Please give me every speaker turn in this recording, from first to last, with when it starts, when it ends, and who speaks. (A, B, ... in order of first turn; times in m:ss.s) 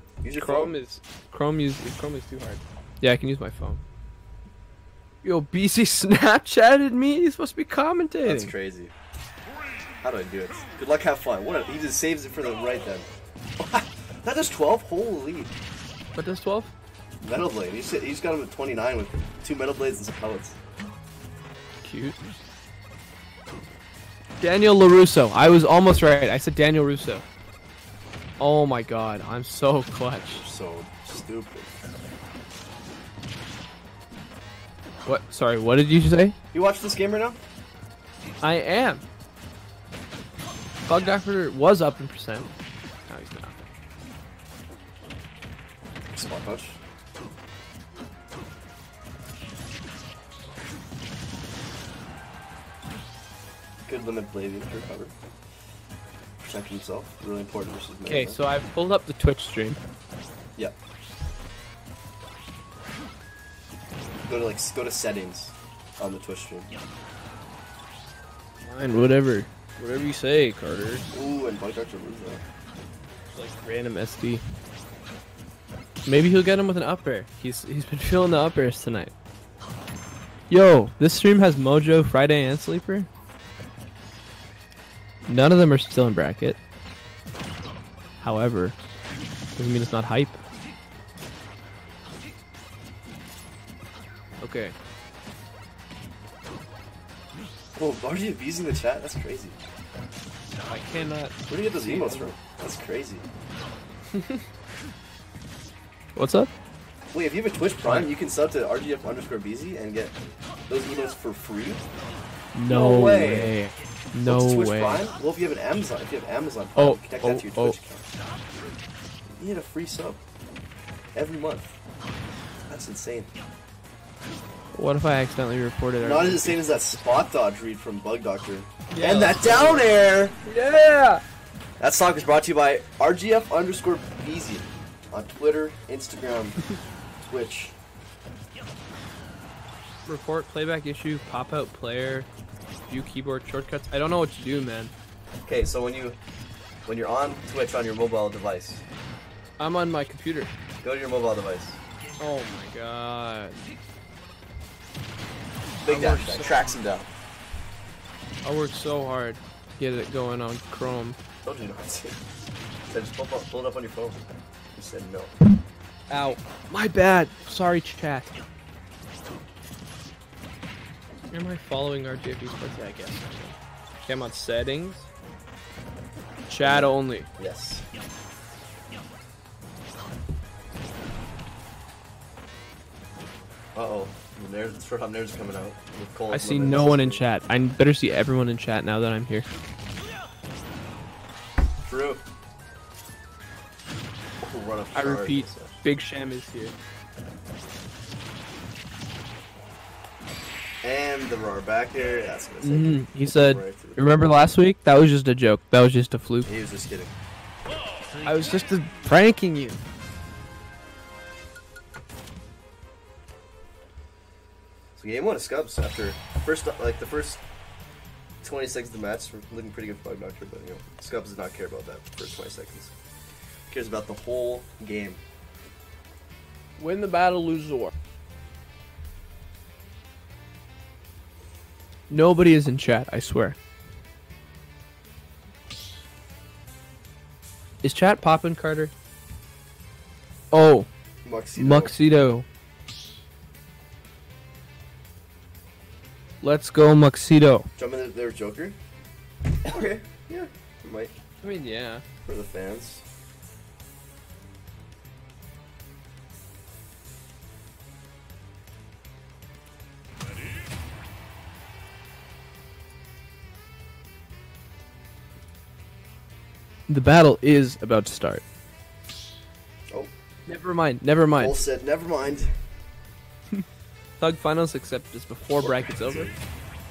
0:00.2-0:00.8 A
0:00.4-0:03.8 B
0:05.2-0:08.5 B
0:08.2-0:08.9 A
0:10.0-0:15.5 A
0:16.1-0:16.7 B
0:17.2-0:20.6 A
0:21.8-0:22.2 B
0:24.4-0:27.2 B
0:28.4-0:30.4 B
0:30.3-0:31.8 A
0:35.0-0:36.3 B
0:36.5-0:37.4 A
0:38.4-0:39.0 B
0:40.8-0:42.5 B
0:43.1-0:43.5 B
0:46.1-0:46.8 A
0:53.8-0:55.1 A
0:56.4-0:58.4 A
0:58.0-0:59.8 B
1:04.3-1:06.7 A
1:08.6-1:11.0 B
1:11.1-1:12.4 A
1:13.3-1:14.4 B
1:16.0-1:19.1 B
1:20.5-1:23.1 B
1:25.3-1:26.6 B
1:28.2-1:28.8 B
1:29.6-1:30.4 B
1:34.4-1:34.7 B
1:37.8-1:39.6 A
1:40.6-1:42.3 B
1:41.5-1:43.2 A
1:44.1-1:44.4 B
1:46.2-1:46.5 B
1:47.1-1:50.2 A
1:47.8-1:48.1 B
1:50.7-1:51.8 A
1:52.5-1:55.1 B
1:52.7-1:53.5 A
1:54.2-1:58.1 A
1:56.8-1:57.8 B
1:59.3-2:00.2 A
2:01.1-2:01.8 A
2:02.7-2:03.3 A
2:04.7-2:07.0 B
2:06.0-2:10.4 A
2:08.9-2:09.9 B
2:10.4-2:11.2 B
2:11.8-2:16.6 A
2:17.2-2:17.8 A
2:20.0-2:22.3 B
2:22.9-2:24.9 B
2:25.4-2:26.2 A
2:26.8-2:28.8 A
2:29.6-2:30.5 B
2:30.8-2:31.8 A
2:32.2-2:33.6 B
2:35.8-2:37.1 A
2:35.8-2:36.8 B
2:38.4-2:41.2 B
2:41.4-2:42.2 A
2:42.9-2:44.2 A
2:44.7-2:45.3 A
2:46.1-2:48.3 B
2:51.3-2:55.1 B
2:56.5-2:57.3 B
2:56.6-2:57.8 A
3:03.7-3:07.2 A
3:06.3-3:09.4 B
3:11.8-3:12.2 A
3:14.4-3:15.7 A
3:14.9-3:16.7 B
3:20.8-3:24.2 A
3:22.6-3:26.5 B
3:26.4-3:27.1 A
3:28.2-3:29.8 B
3:35.0-3:37.4 A
3:38.4-3:42.9 A
3:43.7-3:45.2 A
3:46.8-3:47.9 B
3:52.1-3:53.6 B
3:57.8-3:58.9 B
4:00.5-4:00.9 B
4:01.2-4:01.9 A
4:01.6-4:02.4 B
4:06.4-4:07.7 B
4:07.8-4:08.8 A
4:09.6-4:11.1 A
4:11.4-4:12.0 B
4:12.2-4:13.0 A
4:26.9-4:28.4 B
4:30.5-4:31.6 B
4:31.4-4:32.5 A
4:34.2-4:36.3 B
4:35.6-4:36.4 A